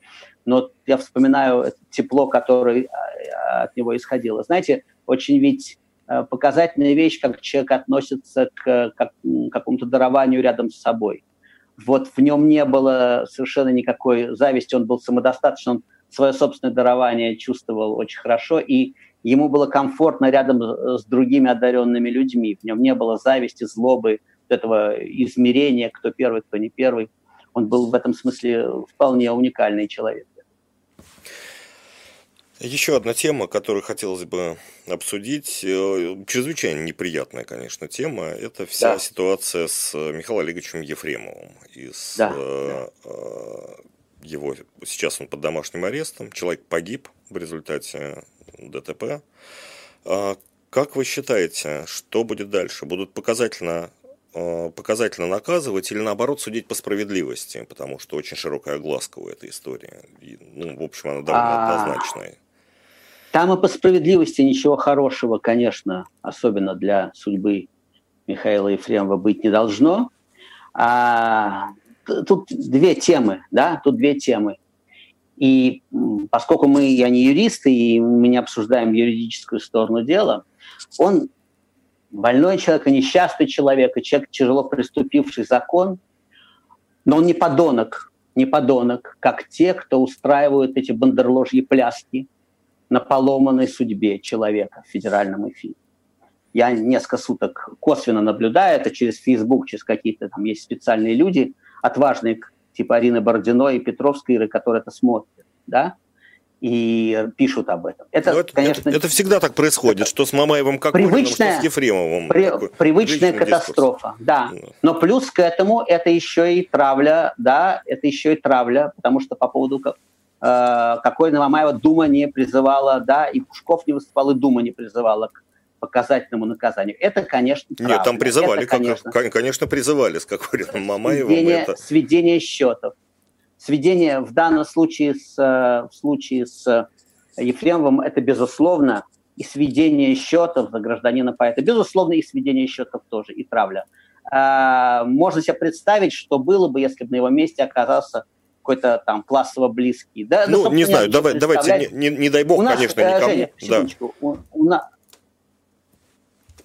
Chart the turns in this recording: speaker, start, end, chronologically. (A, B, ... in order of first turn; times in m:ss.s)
0:00.4-0:11.2 A
0:11.8-0:30.4 A
0:32.6-0:49.2 B
0:50.0-1:02.4 B
1:01.3-1:02.1 A
1:03.3-1:07.7 A
1:08.3-1:10.1 A
1:10.7-1:14.6 A
1:15.4-1:20.4 A
1:21.0-1:21.3 A
1:22.1-1:26.0 A
1:27.0-1:32.3 A
1:32.9-1:35.8 A
1:36.5-1:45.9 A
1:46.6-1:49.0 A
1:48.2-1:53.9 B
1:50.9-1:51.7 A
1:52.3-2:09.2 A
2:07.8-2:11.8 B
2:11.0-2:12.9 A
2:13.6-2:16.8 A
2:17.4-2:31.9 A
2:30.5-2:33.8 B
2:32.6-2:34.8 A